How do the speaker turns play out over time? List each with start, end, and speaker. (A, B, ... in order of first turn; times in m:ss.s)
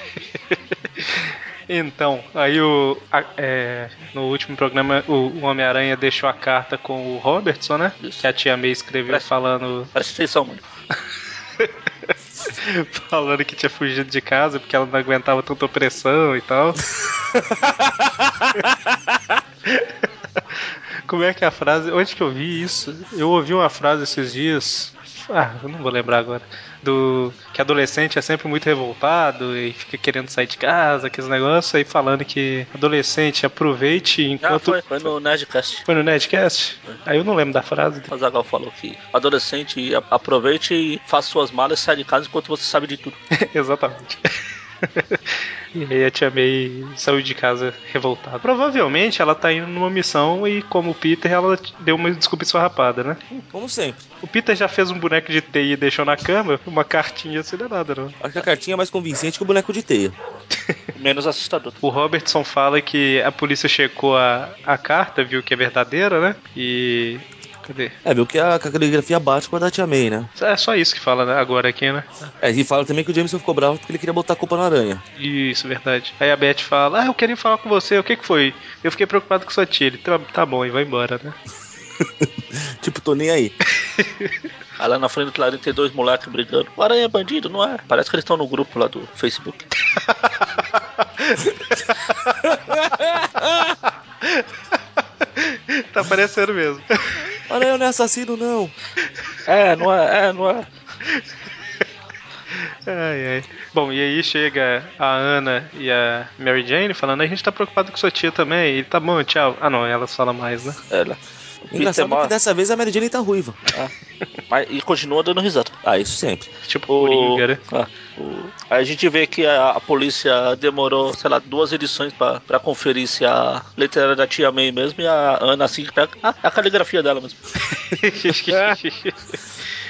0:01.0-0:09.9 A
0:09.9-0:10.6 B
0:12.4-0:16.8 A
0:19.7-0:19.9 A
0:20.6-0:34.8 A
0:34.4-0:35.8 B
0:35.9-0:38.1 A
0:38.1-0:43.2 B
0:43.3-0:53.2 A
0:53.5-0:54.0 C
0:54.2-0:58.2 A
0:58.2-1:00.1 C
1:00.9-1:01.8 B
1:01.8-1:07.9 A
1:08.0-1:10.3 C
1:10.4-1:12.3 A
1:12.4-1:15.0 C
1:15.2-1:21.4 A
1:22.0-1:23.5 C
1:23.8-1:24.3 A
1:24.8-1:29.6 B
1:30.1-1:31.5 A
1:32.4-1:33.7 C
1:34.2-1:37.2 A
1:37.5-1:38.7 C
1:39.5-1:40.7 B
1:42.5-1:50.8 A
1:50.9-1:52.3 B
1:51.7-1:53.6 C
1:54.5-1:55.7 B
1:55.8-1:56.5 C
1:56.6-1:57.6 A
1:56.9-2:07.4 B
2:07.8-2:09.4 A